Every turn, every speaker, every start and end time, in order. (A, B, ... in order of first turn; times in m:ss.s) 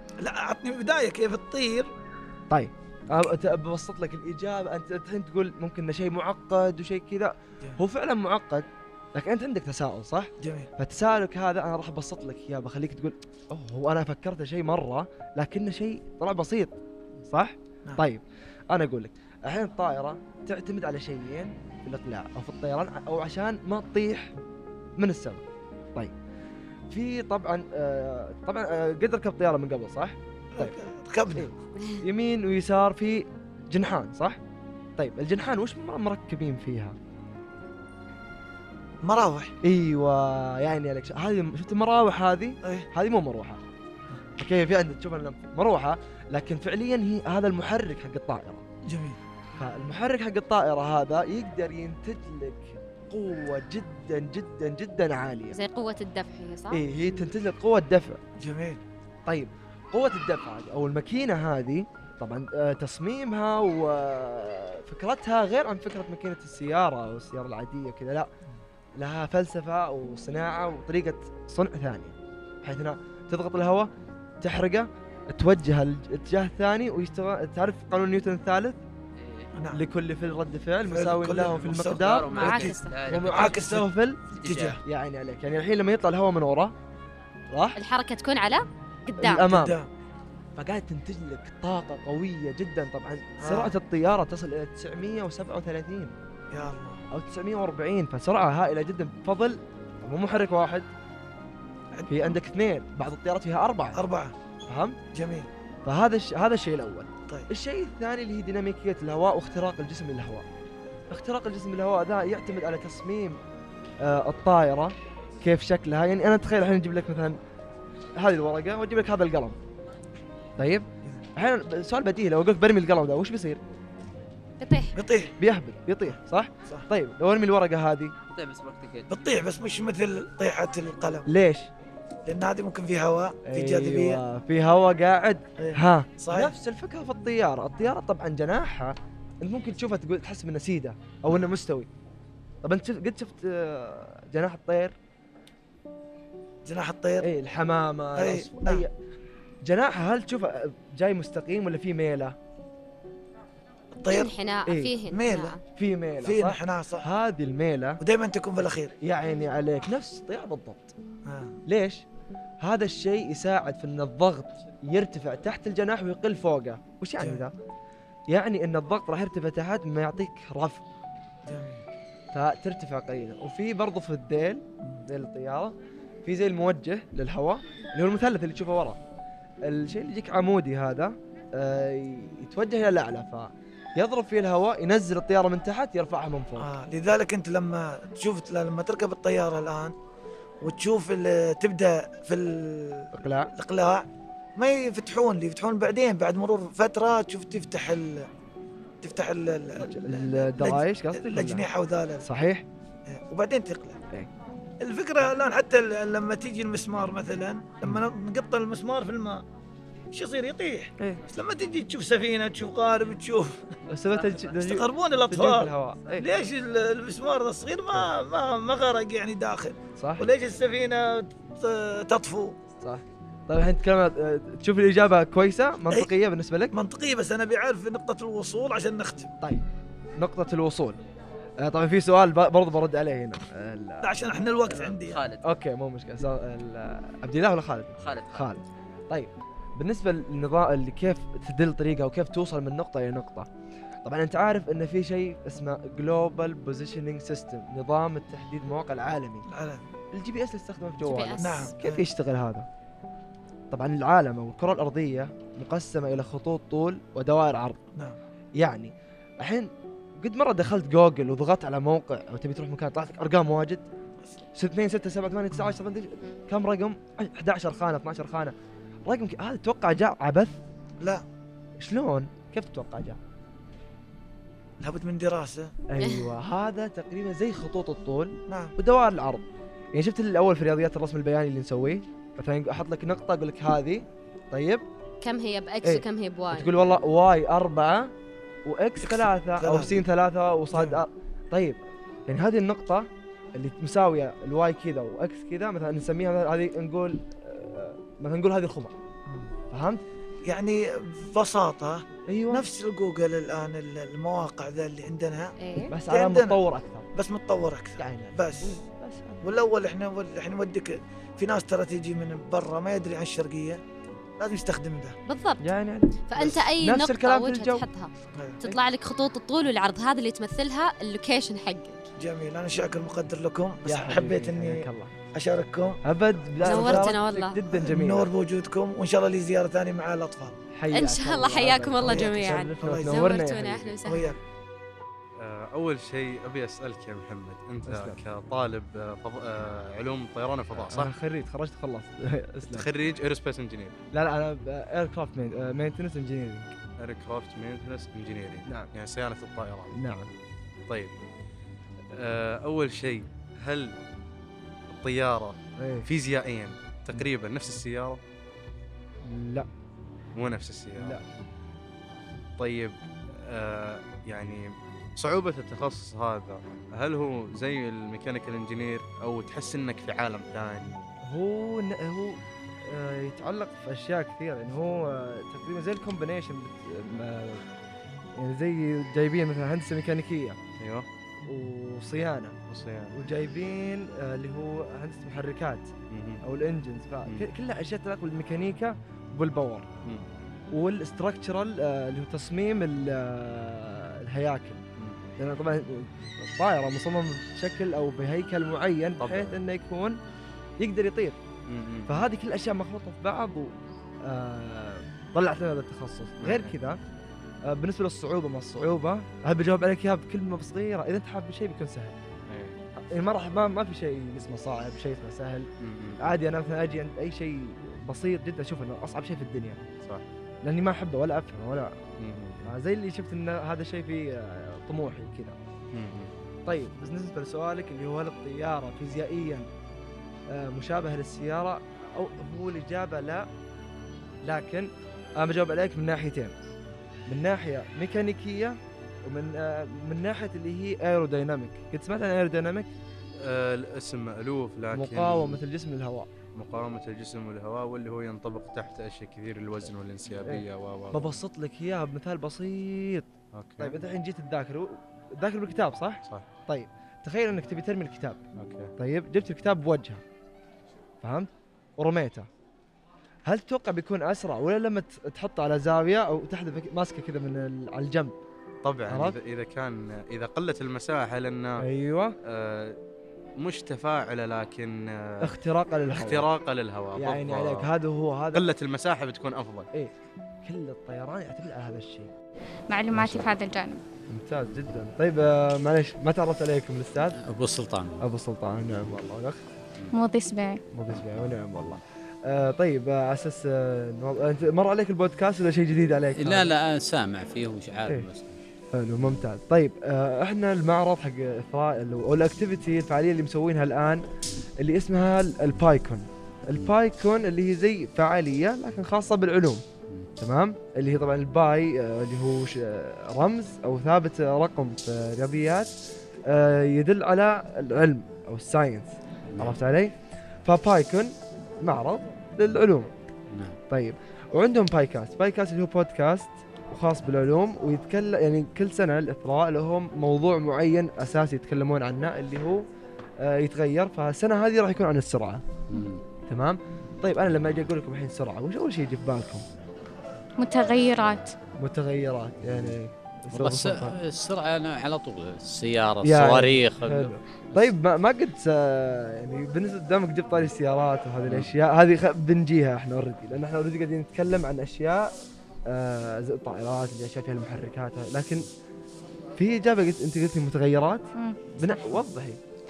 0:00.2-0:01.9 A
0:02.5-0:16.8 B
0:10.4-0:10.7 A
0:17.3-0:24.3 B
0:25.0-0:25.4 B
0:26.9-0:30.7 B
0:30.5-0:31.5 A
0:31.3-0:34.4 B
0:31.8-0:32.0 C
0:35.0-0:37.0 B
0:39.0-0:39.5 A
0:39.6-0:43.6 B
0:42.6-0:42.9 A
0:44.4-0:48.6 B
0:48.8-0:49.2 A
0:49.6-0:55.6 B
0:55.5-0:56.8 C
0:56.7-0:58.2 B
0:58.4-0:58.8 A
0:59.3-1:08.3 B
1:09.0-1:18.8 B
1:19.2-1:19.5 D
1:19.5-1:19.8 A
1:19.7-1:24.2 B
1:20.9-1:23.9 A
1:21.7-1:23.8 D
1:22.3-1:23.0 C
1:24.3-1:24.8 D
1:24.4-1:24.8 A
1:24.8-1:26.7 B
1:27.5-1:27.8 B
1:27.8-1:29.6 C
1:29.2-1:29.8 B
1:29.5-1:29.9 A
1:30.6-1:36.1 B
1:33.4-1:33.7 A
1:36.5-1:37.0 A
1:37.1-1:40.9 B
1:41.9-1:42.3 A
1:42.1-1:44.0 B
1:44.0-1:44.3 A
1:44.7-1:45.0 B
1:45.1-1:45.5 A
1:45.8-1:50.4 B
1:51.1-1:53.4 B
1:54.0-1:57.4 B
1:58.2-1:59.6 B
2:00.6-2:03.6 B
2:04.6-2:05.0 C
2:04.9-2:05.3 A
2:05.4-2:08.1 B
2:08.3-2:09.1 D
2:09.1-2:11.3 A
2:11.3-2:11.7 B
2:12.2-2:14.2 A
2:13.4-2:21.9 B
2:15.6-2:16.5 A
2:22.6-2:24.9 B
2:26.6-2:27.3 A
2:27.2-2:28.9 B
2:28.2-2:28.8 A
2:29.6-2:32.4 B
2:34.0-2:34.3 A
2:34.1-2:35.6 C
2:34.7-2:34.9 B
2:35.1-2:35.6 A
2:35.7-2:38.0 B
2:36.2-2:37.1 A
2:38.0-2:38.9 A
2:39.0-2:40.9 B
2:41.2-2:41.6 A
2:41.7-2:42.0 B
2:42.6-2:47.5 B
2:48.3-2:50.8 B
2:51.5-2:51.8 A
2:52.3-2:59.0 B
2:59.6-3:06.7 B
3:06.6-3:09.9 A
3:10.6-3:18.3 A
3:13.1-3:13.5 B
3:19.0-3:22.2 A
3:19.8-3:21.6 B
3:22.2-3:22.6 B
3:23.0-3:24.0 A
3:24.8-3:29.4 A
3:30.1-3:33.7 A
3:33.9-3:36.3 B
3:34.4-3:42.6 A
3:40.0-3:40.2 B
3:42.8-3:46.7 B
3:46.7-3:49.3 A
3:50.2-3:51.0 B
3:51.6-3:54.2 B
3:54.0-3:55.2 A
3:54.7-3:55.4 D
3:55.4-4:03.5 B
3:58.0-3:58.5 D
4:04.0-4:09.4 B
4:09.5-4:09.8 A
4:10.1-4:12.7 B
4:11.0-4:11.7 C
4:11.4-4:12.0 A
4:13.7-4:17.8 B
4:18.6-4:23.8 B
4:24.5-4:28.5 B
4:29.0-4:30.6 B
4:31.8-4:33.2 B
4:34.8-4:35.7 A
4:35.9-4:44.8 B
4:36.0-4:36.3 C
4:38.5-4:38.7 A
4:45.2-4:46.7 C
4:45.8-4:48.1 B
4:48.6-4:58.9 B
4:49.0-4:50.0 A
4:50.7-4:51.0 A
4:59.7-5:00.0 B
5:00.4-5:05.5 A
5:02.3-5:02.6 B
5:05.6-5:05.9 C
5:05.9-5:07.1 B
5:06.1-5:06.6 A
5:07.1-5:08.8 A
5:08.0-5:09.4 B
5:09.4-5:13.8 A
5:14.4-5:15.2 A
5:15.3-5:15.6 C
5:15.6-5:17.8 B
5:16.3-5:22.0 C
5:18.3-5:18.6 A
5:22.2-5:26.0 A
5:23.8-5:25.1 B
5:26.0-5:28.3 B
5:26.6-5:27.2 A
5:26.6-5:27.6 C
5:27.7-5:30.6 A
5:30.7-5:33.9 B
5:30.9-5:34.3 C
5:32.0-5:33.3 A
5:34.0-5:34.4 A
5:35.4-5:41.1 E
5:37.8-5:38.2 B
5:40.8-5:42.9 B
5:42.7-5:44.0 E
5:44.1-5:46.7 B
5:47.0-5:50.3 E
5:48.6-5:48.9 B
5:49.9-5:50.3 B
5:52.1-5:54.0 E
5:54.9-5:58.2 E
5:55.8-5:56.1 B
5:59.2-5:59.7 B
6:00.4-6:01.2 E
6:01.0-6:01.2 B
6:02.6-6:10.9 E
6:11.3-6:17.6 B
6:18.4-6:20.6 B
6:20.8-6:21.1 E
6:21.4-6:22.6 B
6:22.7-6:23.1 E
6:23.1-6:25.9 B
6:26.1-6:26.4 E
6:26.4-6:29.9 B
6:30.7-6:34.8 B
6:35.4-6:40.2 B
6:39.2-6:39.6 E
6:40.8-6:41.4 B
6:41.7-6:42.1 E
6:42.1-6:43.7 B
6:44.2-6:47.0 B
6:46.4-6:46.7 E
6:47.6-6:52.2 B
6:52.5-6:52.8 E
6:53.0-6:59.8 B
6:55.8-6:56.3 E
7:00.6-7:01.9 B
7:02.2-7:02.6 E
7:02.6-7:05.6 B
7:05.9-7:06.3 E
7:06.6-7:09.7 B
7:10.5-7:13.5 B
7:14.4-7:16.5 B
7:17.3-7:22.9 B
7:23.4-7:25.6 E
7:24.9-7:26.3 B
7:26.5-7:31.4 E
7:30.4-7:33.3 B
7:33.5-7:34.0 E
7:33.8-7:38.4 B
7:38.6-7:38.9 E
7:39.0-7:40.2 B
7:41.2-7:42.5 B
7:43.4-7:48.3 B
7:48.8-7:51.8 E
7:49.1-7:49.4 B
7:51.8-7:52.4 B
7:52.4-7:53.0 E
7:53.6-7:55.5 E
7:55.4-7:56.5 B
7:56.1-7:57.9 E
7:57.1-7:58.7 B
7:58.5-7:59.9 E
8:00.6-8:02.3 B
8:02.9-8:04.0 F
8:03.1-8:03.5 B
8:04.3-8:07.4 B
8:07.4-8:08.2 G
8:08.2-8:09.6 B
8:10.1-8:10.8 F
8:10.9-8:16.7 B
8:16.4-8:18.6 G
8:18.9-8:24.2 B
8:24.8-8:29.8 B
8:30.4-8:35.9 B
8:36.5-8:40.1 B
8:39.5-8:39.8 G
8:40.6-8:43.1 B
8:43.5-8:43.8 G
8:43.9-8:52.8 B
8:53.4-8:55.6 B
8:55.9-8:56.2 G
8:56.5-8:59.6 B
9:00.6-9:01.5 F
9:01.8-9:04.2 B
9:02.6-9:03.0 G
9:03.5-9:07.9 G
9:06.2-9:15.3 B
9:15.9-9:18.7 B
9:19.6-9:22.6 B